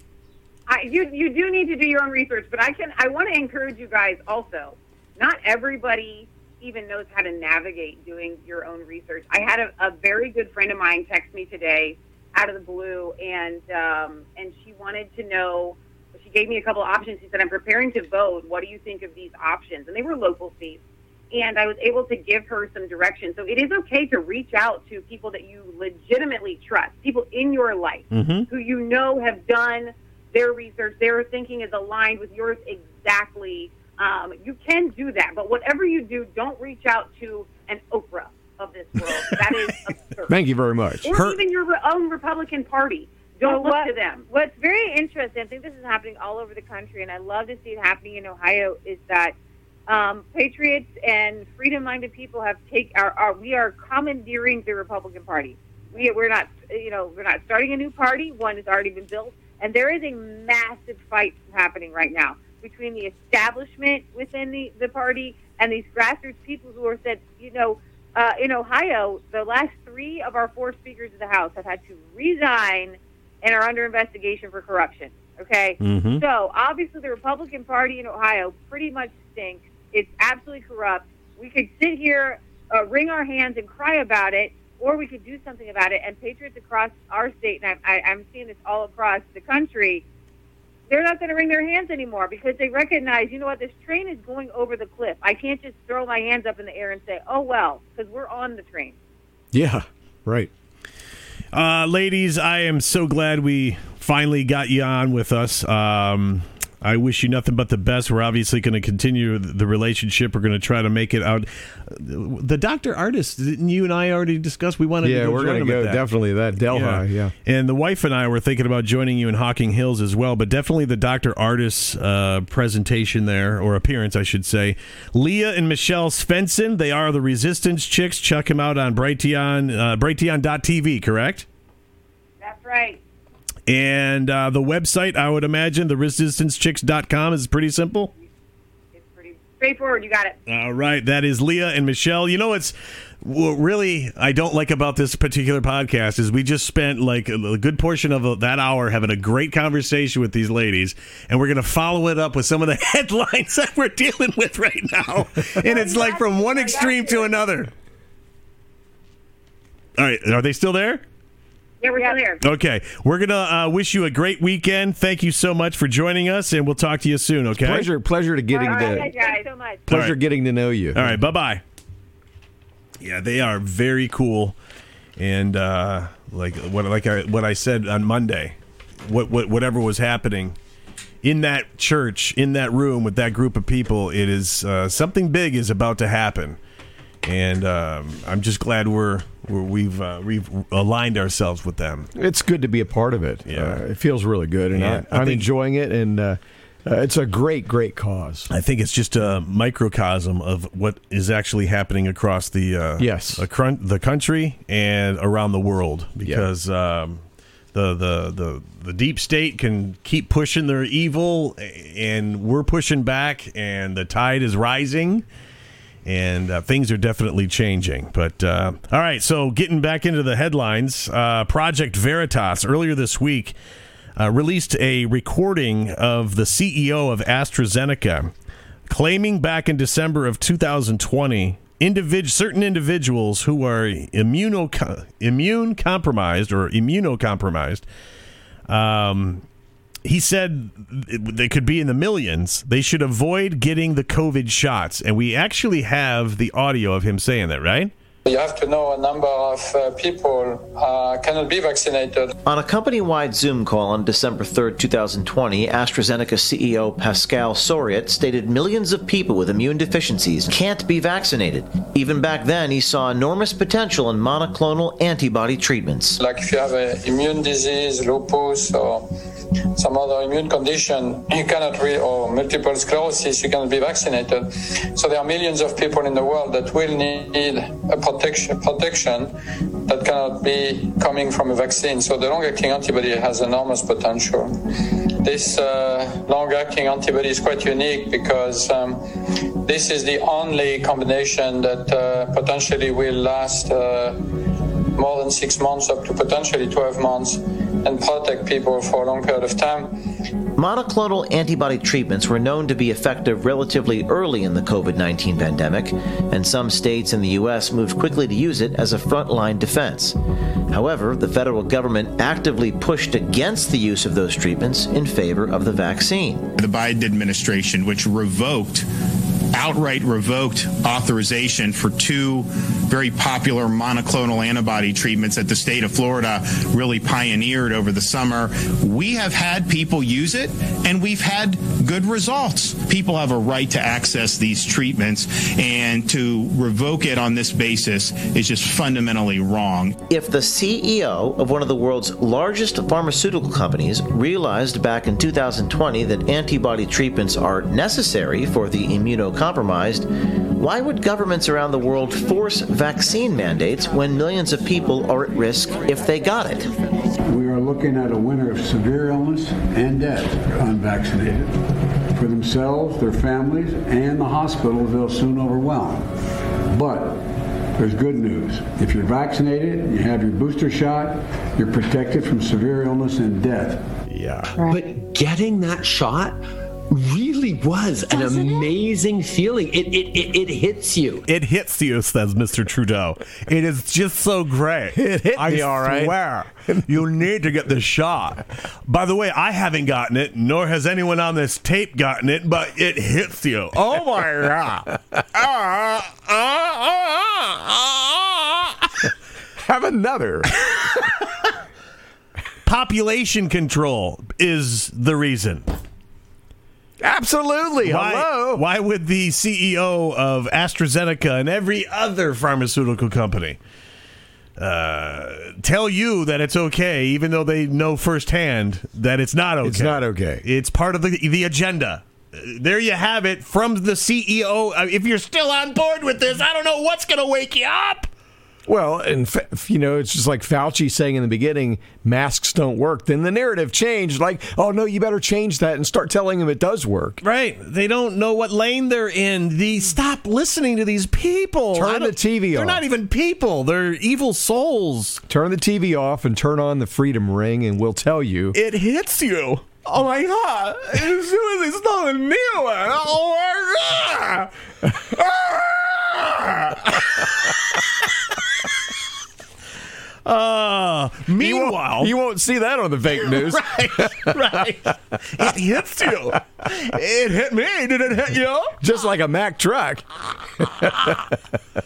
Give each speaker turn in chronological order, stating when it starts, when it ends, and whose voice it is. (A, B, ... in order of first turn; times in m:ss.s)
0:00.7-0:40.4 A
0:28.1-0:28.5 B
0:40.3-0:41.1 C
0:41.0-0:44.2 A
0:41.1-0:41.4 B
0:43.4-0:49.4 D
0:49.9-1:30.0 D
1:15.8-1:16.2 B
1:30.9-1:39.0 D
1:39.5-1:40.5 C
1:41.5-1:56.0 B
1:55.0-1:57.3 C
1:56.7-2:11.5 B
2:12.4-2:13.0 D
2:12.5-2:12.9 A
2:13.7-2:18.1 B
2:19.0-2:20.4 A
2:20.5-2:37.7 B
2:35.6-2:37.3 A
2:35.8-2:36.1 D
2:40.0-2:41.0 B
2:41.8-2:42.4 A
2:42.0-2:42.2 D
2:42.4-2:47.9 B
2:47.6-2:49.1 C
2:48.5-2:49.8 D
2:48.6-2:49.4 A
2:49.9-2:51.2 C
2:49.9-2:50.2 B
2:50.9-2:51.6 B
2:53.0-2:54.6 B
2:55.2-3:00.6 B
3:01.2-3:06.6 B
3:07.2-3:12.1 B
3:12.2-3:18.5 C
3:13.5-3:13.8 B
3:14.7-3:15.5 B
3:18.5-3:27.2 B
3:23.0-3:23.4 C
3:27.7-3:35.2 B
3:36.0-3:43.6 B
3:44.2-3:48.3 B
3:48.9-3:57.8 B
3:58.7-3:59.5 B
4:00.0-4:07.9 B
4:08.3-4:12.3 E
4:12.4-4:26.2 F
4:26.2-4:29.1 E
4:29.8-4:39.3 E
4:39.9-4:44.6 E
4:45.2-4:49.0 E
4:49.6-4:54.2 E
4:55.0-4:59.9 E
5:00.6-5:10.2 F
5:10.7-5:16.5 F
5:16.5-5:18.9 G
5:19.5-5:40.0 G
5:40.1-5:56.7 F
5:57.3-6:01.6 H
6:02.1-6:06.1 H
6:06.7-6:13.9 H
6:14.1-6:14.5 C
6:14.5-6:16.4 I
6:16.9-6:21.2 I
6:21.3-6:39.0 B
6:25.0-6:26.8 C
6:39.6-6:40.5 C
6:42.6-6:45.7 B
6:47.0-6:48.6 C
6:47.8-6:53.6 B
6:54.6-7:08.1 B
6:59.6-7:00.4 C
7:08.7-7:17.2 C
7:17.2-7:25.2 B
7:21.7-7:22.8 C
7:25.3-7:28.6 C
7:28.5-7:38.5 B
7:40.2-7:42.1 B
7:41.4-7:44.7 C
7:43.2-7:48.8 B
7:48.7-7:50.1 C
7:50.6-7:51.1 C
7:50.6-7:51.3 B